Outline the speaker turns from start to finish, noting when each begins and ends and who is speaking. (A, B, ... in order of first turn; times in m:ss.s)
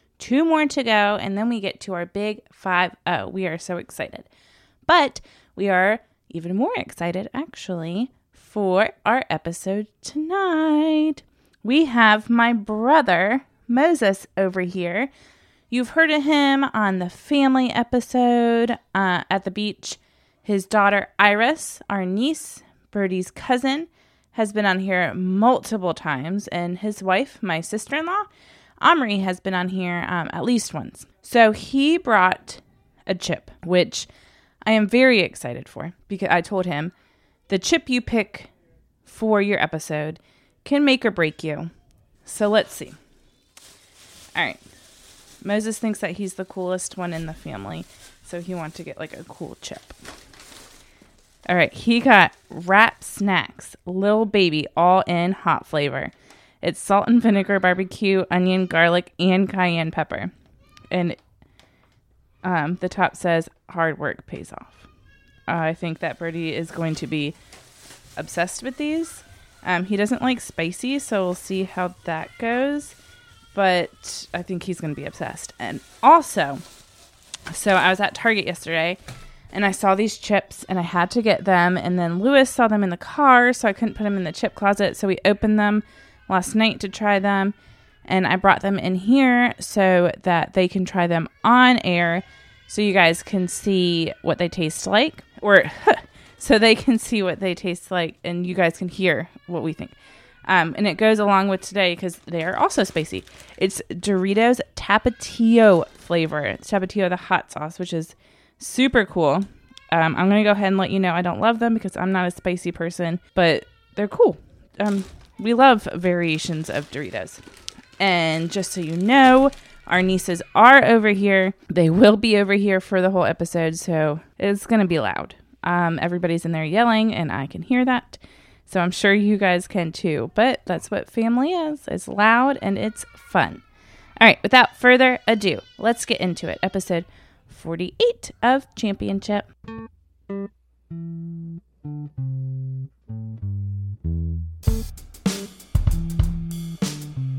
0:00.2-0:04.3 A
0:04.9-0:15.1 A
0:15.7-0:28.3 A
0:28.8-0:34.1 A
0:34.6-0:36.9 A
0:37.5-0:38.5 A
0:39.1-0:41.7 A
0:42.2-0:43.0 A
0:44.4-0:44.6 A
0:45.4-0:50.0 A
0:51.5-1:00.3 A
1:00.9-1:01.2 A
1:02.4-1:04.8 A
1:05.5-1:07.4 A
1:08.2-1:13.0 A
1:13.5-1:16.6 A
1:17.5-1:19.0 A
1:19.5-1:27.6 A
1:28.1-1:40.0 A
1:40.5-1:57.4 A
1:58.0-2:13.6 A
2:14.2-2:19.5 A